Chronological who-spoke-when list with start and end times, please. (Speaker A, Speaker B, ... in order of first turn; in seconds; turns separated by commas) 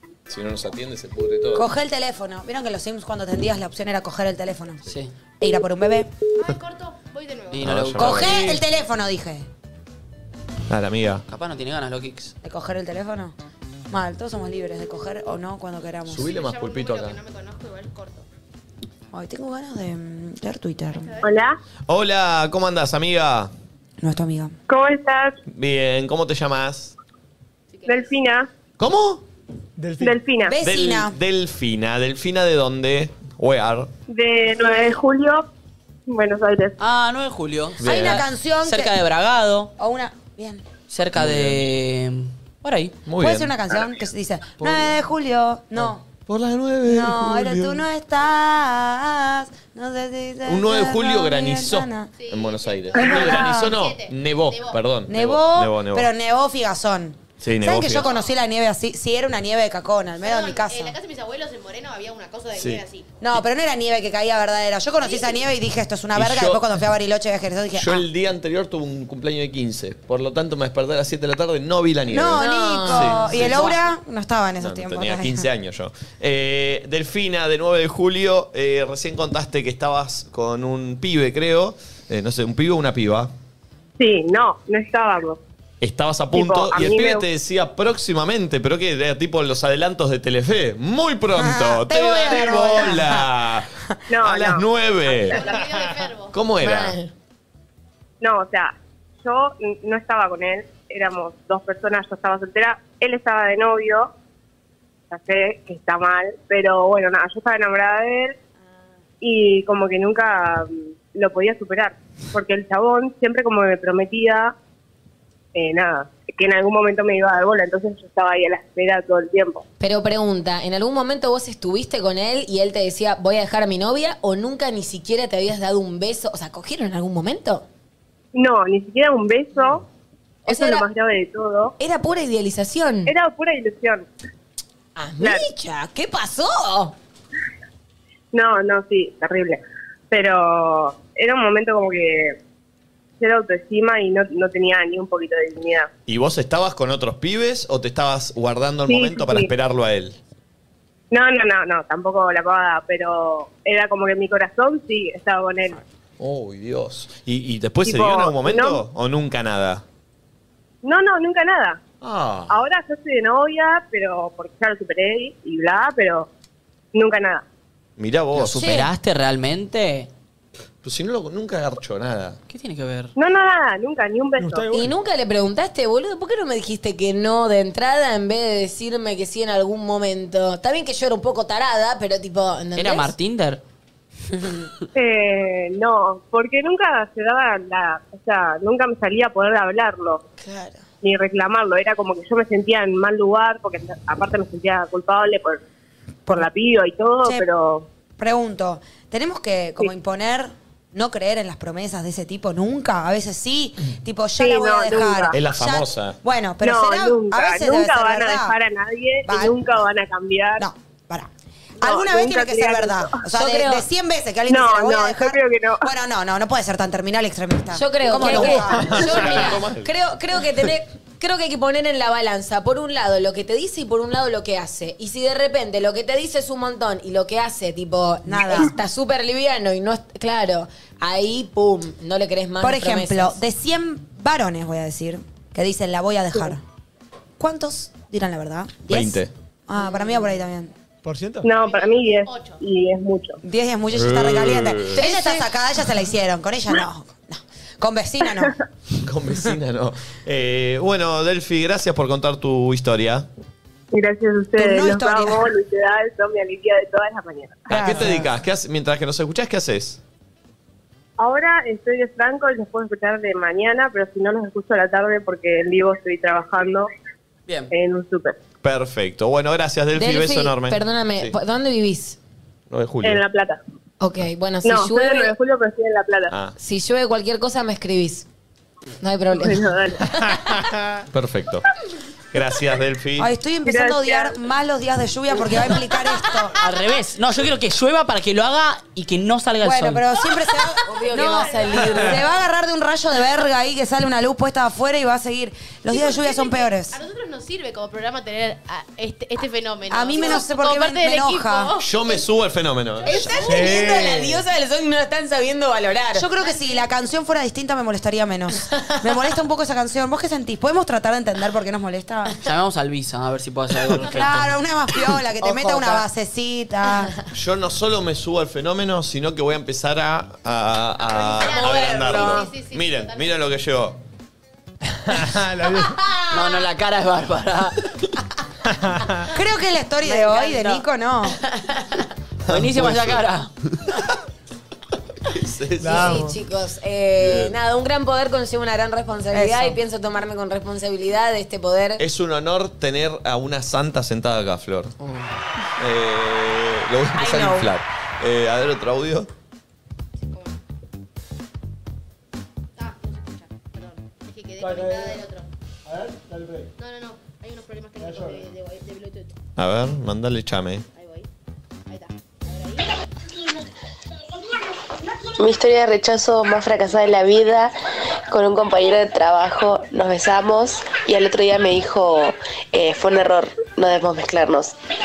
Speaker A: 0.3-1.7, Speaker B: 1.5-4.8, Speaker B: 5.4-6.1, Speaker C: 6.4-7.7, Speaker D: 7.5-8.4, Speaker A: 7.6-8.6, Speaker B: 8.0-9.5, Speaker A: 10.7-11.2, Speaker D: 11.3-12.3, Speaker B: 12.4-13.3, Speaker B: 13.9-16.3, Speaker A: 16.1-17.2, Speaker C: 16.1-18.2, Speaker B: 19.1-21.2, Speaker C: 20.9-21.3, Speaker E: 21.2-21.6, Speaker A: 21.9-23.5, Speaker B: 24.0-24.5, Speaker E: 24.7-25.4, Speaker A: 25.5-26.9, Speaker C: 27.7-28.2, Speaker E: 27.9-28.5, Speaker A: 28.8-29.2, Speaker F: 29.8-30.2, Speaker E: 30.0-30.6, Speaker B: 30.4-31.1, Speaker A: 30.6-33.9, Speaker E: 34.1-35.5, Speaker E: 36.1-36.8, Speaker D: 36.8-39.7, Speaker A: 37.8-38.2, Speaker B: 37.8-39.0, Speaker B: 39.8-40.6, Speaker D: 40.9-43.0, Speaker A: 41.1-41.7, Speaker A: 43.0-43.5, Speaker B: 43.2-46.0, Speaker A: 44.6-44.9, Speaker A: 45.8-47.8, Speaker B: 46.8-52.1, Speaker A: 50.5-56.1, Speaker C: 52.2-54.8, Speaker B: 52.9-53.8, Speaker B: 55.1-61.0, Speaker A: 57.4-58.1, Speaker C: 60.2-63.0, Speaker A: 62.5-62.8, Speaker B: 63.2-68.0, Speaker C: 65.0-65.4, Speaker A: 66.1-66.7, Speaker A: 67.8-73.8, Speaker B: 72.1-75.5, Speaker G: 72.4-73.7, Speaker A: 74.6-83.3, Speaker E: 84.0-85.4, Speaker A: 85.8-95.5, Speaker E: 86.3-87.3, Speaker B: 91.4-93.3, Speaker E: 94.1-94.7, Speaker C: 95.1-96.4, Speaker A: 96.3-97.0, Speaker G: 96.6-97.1, Speaker E: 98.2-104.1, Speaker E: 105.1-108.4, Speaker E: 109.2-114.5, Speaker E: 115.5-119.6, Speaker G: 119.8-127.7, Speaker E: 128.3-129.8, Speaker G: 130.4-130.9, Speaker E: 130.5-131.7, Speaker G: 131.8-133.1, Speaker E: 133.1-134.1, Speaker G: 134.9-136.9, Speaker E: 135.2-135.5, Speaker E: 138.3-142.4, Speaker E: 143.2-145.9, Speaker A: 146.1-150.2, Speaker E: 148.9-149.5, Speaker E: 151.1-155.8, Speaker A: 156.2-159.8, Speaker E: 157.8-158.8, Speaker E: 160.8-161.8, Speaker A: 162.0-162.6, Speaker E: 162.5-166.3, Speaker E: 166.9-167.4, Speaker A: 168.0-168.9, Speaker D: 168.3-170.1, Speaker G: 168.6-168.9, Speaker A: 170.8-172.4, Speaker D: 172.5-173.1, Speaker E: 173.2-174.7, Speaker F: 174.4-174.9, Speaker G: 174.7-183.1, Speaker D: 182.8-183.6, Speaker G: 184.4-184.7, Speaker E: 184.9-190.2, Speaker G: 190.4-190.8, Speaker E: 191.0-195.6, Speaker E: 196.3-197.9, Speaker B: 198.2-208.6, Speaker E: 204.4-205.3, Speaker A: 205.3-206.2, Speaker E: 206.6-210.6, Speaker B: 209.2-209.7, Speaker B: 210.6-219.5, Speaker E: 211.8-213.2, Speaker G: 213.3-213.9, Speaker E: 214.5-215.9, Speaker G: 217.7-233.4, Speaker A: 218.2-219.9, Speaker B: 228.3-228.7, Speaker B: 232.6-236.6, Speaker B: 237.4-240.7, Speaker A: 238.9-239.3, Speaker F: 241.0-241.5, Speaker E: 241.4-243.4, Speaker C: 241.5-242.6, Speaker B: 243.4-248.5, Speaker A: 243.9-245.1, Speaker G: 244.9-245.4, Speaker A: 249.0-253.3, Speaker E: 253.9-257.7, Speaker B: 254.6-255.5, Speaker A: 257.7-260.0, Speaker B: 257.7-258.3, Speaker E: 261.2-266.9, Speaker D: 267.5-267.7, Speaker E: 267.7-268.4, Speaker A: 268.6-271.4, Speaker G: 269.9-272.2, Speaker A: 272.7-273.2, Speaker E: 273.0-273.6, Speaker G: 274.0-275.3, Speaker E: 274.6-276.3, Speaker A: 276.3-276.5, Speaker G: 276.6-278.2, Speaker G: 279.0-280.7, Speaker E: 279.4-280.1, Speaker A: 281.1-281.6, Speaker A: 282.3-283.3, Speaker B: 283.2-286.6, Speaker E: 283.6-284.4, Speaker D: 286.6-290.1, Speaker B: 289.6-297.0, Speaker G: 290.8-292.2, Speaker C: 291.1-292.2, Speaker C: 295.9-302.3, Speaker B: 299.9-301.7, Speaker A: 301.8-303.6, Speaker C: 303.0-303.8, Speaker G: 303.0-306.3, Speaker F: 303.4-304.4, Speaker B: 306.1-312.4, Speaker C: 306.4-306.9, Speaker D: 312.4-314.5, Speaker B: 314.0-317.1, Speaker C: 314.0-314.4, Speaker G: 315.4-316.0, Speaker A: 317.3-324.0, Speaker C: 321.1-323.4, Speaker G: 321.5-322.5, Speaker F: 325.1-326.0, Speaker G: 325.7-326.6, Speaker D: 326.3-328.1, Speaker F: 328.7-329.3, Speaker B: 329.3-331.4, Speaker G: 330.0-330.9, Speaker G: 331.4-332.1, Speaker A: 332.4-333.2, Speaker D: 332.5-333.5, Speaker A: 335.3-336.3, Speaker F: 335.8-336.4, Speaker G: 335.9-342.0, Speaker A: 337.2-337.6, Speaker B: 339.3-339.8, Speaker A: 342.0-344.9, Speaker C: 345.4-345.8, Speaker A: 345.8-349.3, Speaker G: 347.1-347.7, Speaker C: 350.2-350.6, Speaker C: 352.8-355.5, Speaker F: 354.6-355.2, Speaker F: 355.9-356.7, Speaker C: 356.8-359.3, Speaker F: 358.0-358.4, Speaker A: 359.6-360.8, Speaker C: 360.9-361.3, Speaker C: 361.9-362.9, Speaker H: 365.4-367.7, Speaker H: 368.3-374.7